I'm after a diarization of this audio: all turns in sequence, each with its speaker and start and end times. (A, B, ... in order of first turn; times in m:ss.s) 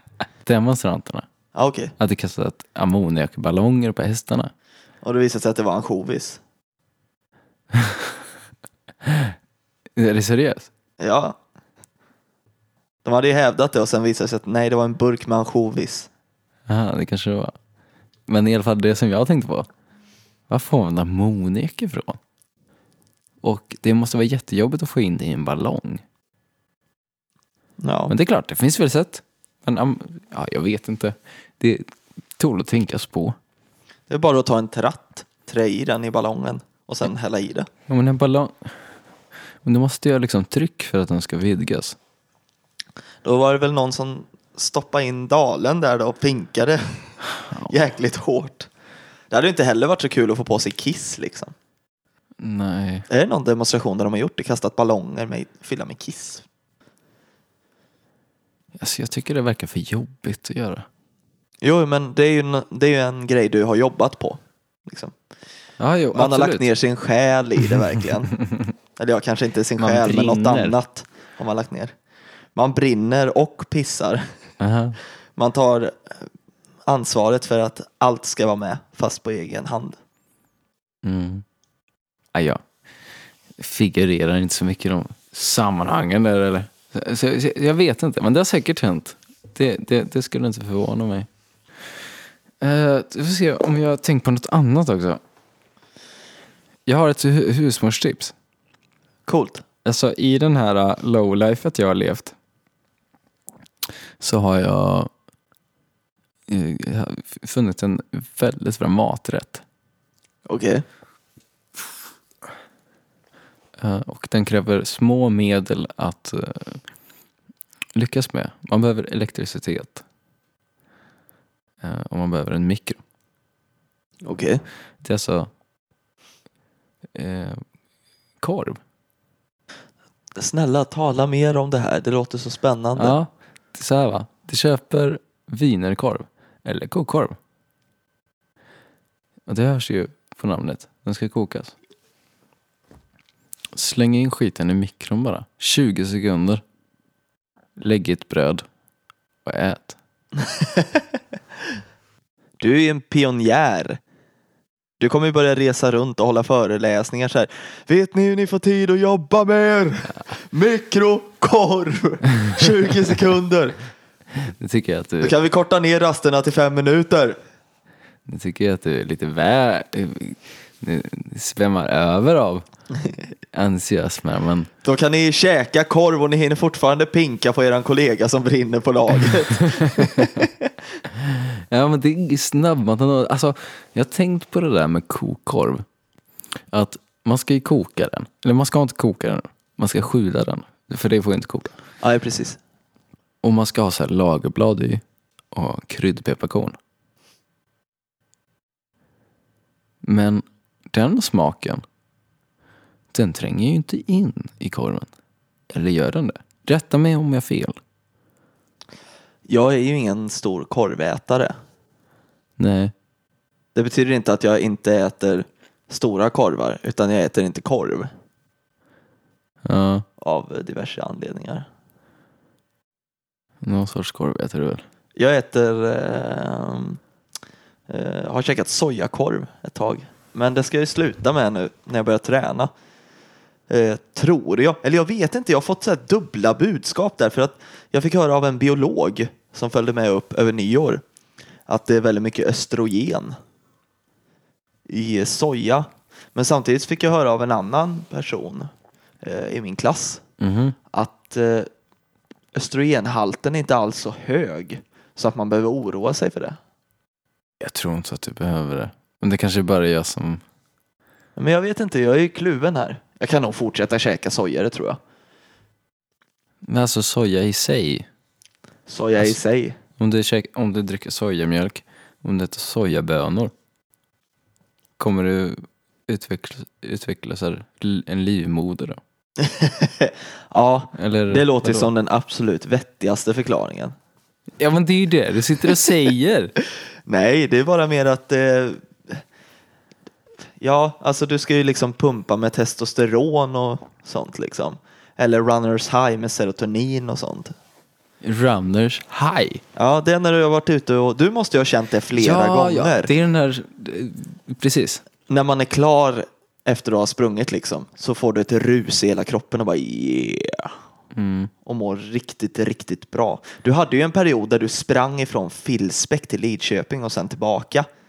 0:00.4-0:01.2 A
0:01.6-0:01.9 B
0:02.0-0:04.5 A
0:05.0-0:06.4 B
0:07.7-0:08.2 A
0:09.0-0:09.4 A
0:10.0-0:10.7 A
0:11.0-0:11.4 B
0:13.0-0:16.1 B
0:16.7-0:17.5 A
0:18.3-0:19.7 A
0:20.5-0:22.2 A
0:23.4-0:26.0 A
0:27.8-0:28.1 B
0:28.1-0:33.4 A
0:34.1-0:37.7 B
0:37.9-0:38.7 A
0:39.6-0:42.0 A
0:43.2-0:48.7 B
0:47.4-0:47.7 A
0:49.3-0:51.5 B
0:52.4-0:53.1 A
0:53.1-0:56.4 B
0:58.8-1:00.9 A
1:01.6-1:05.1 B
1:05.8-1:06.6 A
1:06.1-1:08.4 B
1:09.0-1:11.9 B
1:09.8-1:10.8 A
1:12.6-1:14.2 B
1:14.6-1:15.0 A
1:15.4-1:16.2 B
1:16.9-1:20.0 B
1:21.0-1:21.4 A
1:22.3-1:22.6 A
1:23.6-1:31.3 A
1:32.6-1:35.2 A
1:36.9-1:38.3 A
1:39.3-1:39.6 B
1:39.8-1:42.3 A
1:44.2-1:45.1 A
1:46.5-1:49.6 A
1:50.5-1:50.8 B
1:53.8-1:56.8 A
1:57.9-2:00.0 A
2:01.8-2:03.0 A
2:04.2-2:04.6 B
2:05.0-2:05.5 A
2:07.1-2:07.6 A
2:08.4-2:08.8 A
2:10.4-2:13.2 B
2:13.0-2:17.4 A
2:19.5-2:21.7 A
2:23.7-2:26.6 A
2:27.8-2:28.6 A
2:29.4-2:30.0 A
2:30.4-2:31.0 B
2:32.6-2:34.0 B
2:35.0-2:43.8 B
2:44.4-2:45.4 A
2:45.2-2:47.4 B
2:48.2-2:52.6 A
2:53.5-2:54.7 A
2:54.8-3:00.7 B
2:59.6-3:00.4 A
3:01.2-3:05.8 A
3:06.7-3:11.7 A
3:12.0-3:12.6 B
3:13.4-3:16.8 A
3:20.0-3:21.8 A
3:23.1-3:25.1 A
3:25.7-3:27.8 A
3:29.5-3:31.5 B
3:32.6-3:32.9 A
3:33.7-3:38.1 B
3:39.6-3:40.0 A
3:40.2-3:41.7 B
3:43.6-3:44.8 A
3:45.2-3:47.0 B
3:47.9-3:52.7 B
3:53.7-4:01.0 B
4:01.7-4:03.4 B
4:04.9-4:08.7 B
4:09.2-4:10.2 B
4:10.4-4:10.8 A
4:10.9-4:11.7 B
4:12.6-4:16.6 B
4:17.6-4:20.4 A
4:21.4-4:25.0 B
4:26.6-4:28.1 A
4:28.9-4:29.8 B
4:30.0-4:33.5 A
4:35.0-4:39.0 A
4:39.4-4:43.9 B
4:40.9-4:41.9 A
4:44.6-4:46.5 A
4:47.1-4:49.2 B
4:50.6-4:57.5 B
4:58.2-4:59.6 A
4:59.8-5:03.1 B
5:02.1-5:05.0 A
5:05.3-5:10.7 B
5:11.1-5:11.5 A
5:11.6-5:17.9 B